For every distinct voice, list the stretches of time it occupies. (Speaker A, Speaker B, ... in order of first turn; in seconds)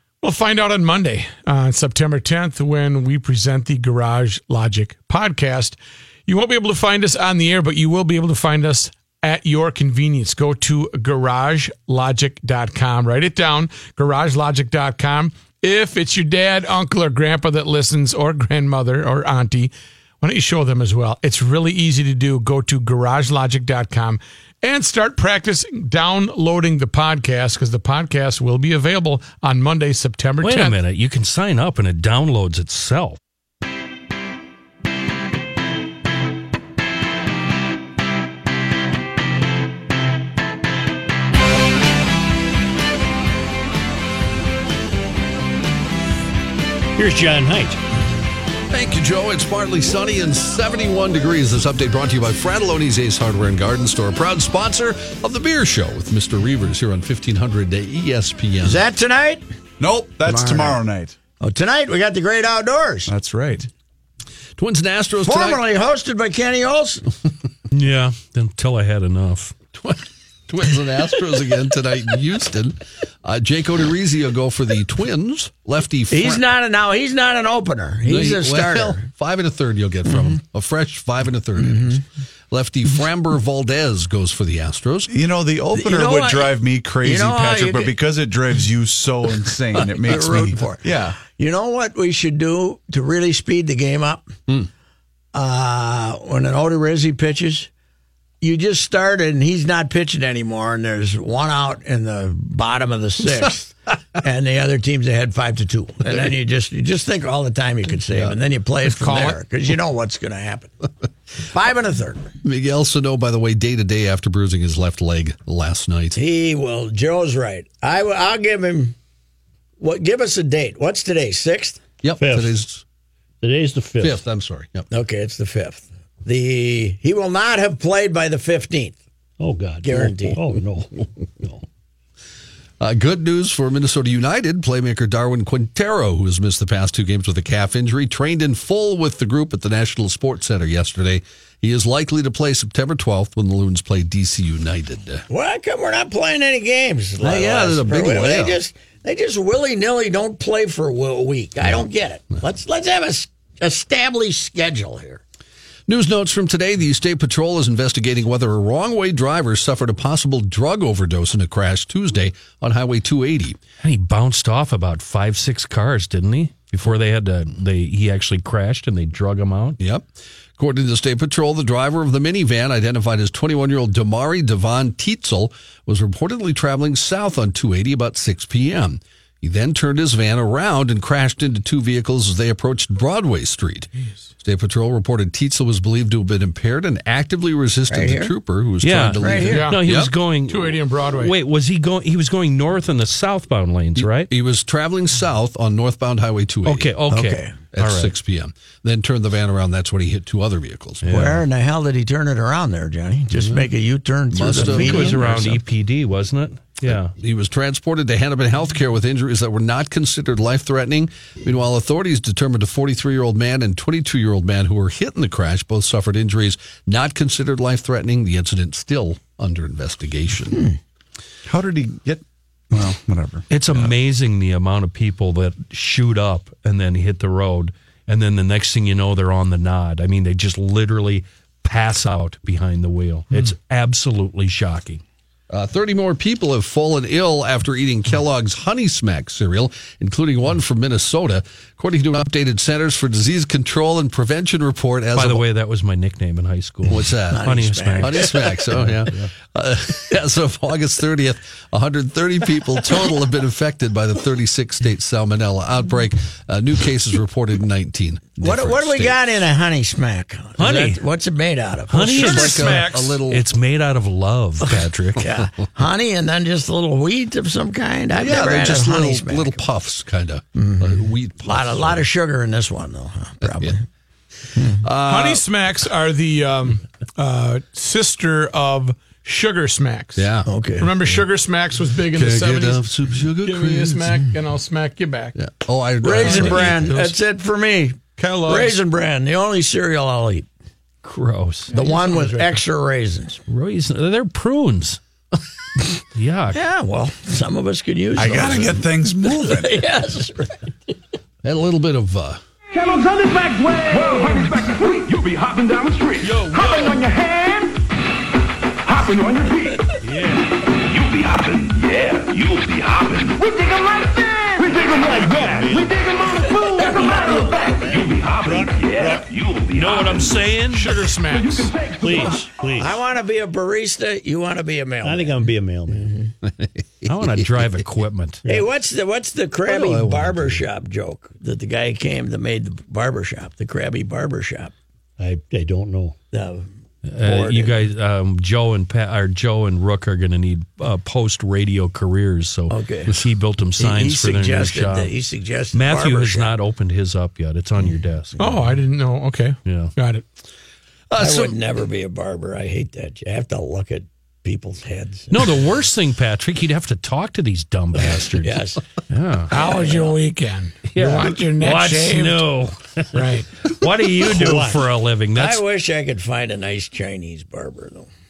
Speaker A: 0.2-30.8, 108.9-109.4, 189.5-189.8, 190.5-191.3, 275.1-285.4, 286.1-286.6, 288.2-288.8, 291.7-292.6, 320.7-321.7, 348.4-350.2, 359.5-362.5, 363.1-363.5
Speaker B: 30.4-33.2, 67.7-69.6, 163.8-169.8, 188.8-194.3, 196.7-198.1, 201.0-201.4, 204.6-207.1, 223.5-235.0, 245.1-249.3, 260.6-261.0, 261.9-265.2, 286.7-287.2, 291.0-291.8, 293.5-295.0, 296.1-296.6, 319.7-321.0, 327.1-328.4, 337.1-345.1, 345.7-348.4, 349.6-349.9, 355.3-359.5, 360.9-365.6
Speaker C: 47.0-47.8, 122.2-122.6, 123.4-124.2, 129.4-131.6, 310.1-310.4, 314.8-315.9, 316.9-317.5, 318.4-319.1, 322.0-323.0, 325.0-326.1, 335.2-336.2, 364.4-364.8
Speaker D: 48.7-58.8, 64.6-65.6, 69.7-76.4, 78.1-85.1, 108.1-108.4, 112.4-116.2, 122.0-122.8, 124.0-124.9, 132.8-145.2, 147.2-148.6, 155.9-163.6, 169.8-170.1, 170.6-190.1, 193.9-196.9, 197.6-201.2, 203.4-203.7, 204.3-205.5, 206.8-220.7, 235.5-245.4, 246.9-247.5, 248.0-259.2, 262.0-263.5, 268.1-272.0, 273.5-273.8, 274.8-275.4, 280.2-280.5, 282.0-284.1, 285.4-286.9, 301.4-302.4, 326.5-327.6, 329.7-330.6, 351.1-351.6
Speaker E: 58.6-59.5, 60.3-60.8, 61.4-63.1, 65.2-67.1, 76.1-79.1, 80.1-80.4, 81.6-82.0, 85.8-87.9, 89.8-94.4, 95.3-97.7, 98.4-110.8, 111.4-112.3, 116.1-119.0, 119.8-121.8, 124.9-129.0, 129.8-130.4, 145.3-155.2, 187.9-188.3, 189.2-189.7, 197.1-197.6, 201.1-205.6, 247.3-248.6, 258.4-262.7, 265.2-269.6, 270.6-273.8, 274.6-274.8, 280.5-280.9, 286.0-290.5, 291.7-293.4, 296.5-300.7, 322.8-326.3, 328.5-334.7, 336.3-336.7, 337.2-337.8, 342.7-343.1, 343.8-346.5, 351.2-355.4, 358.4-358.8, 359.6-360.1, 364.3-364.7, 365.3-368.1
Speaker F: 59.8-61.2, 63.1-63.7, 85.1-91.2, 221.5-223.9, 298.2-299.8
Speaker G: 302.7-307.8, 308.9-310.0, 310.5-320.5, 321.2-322.5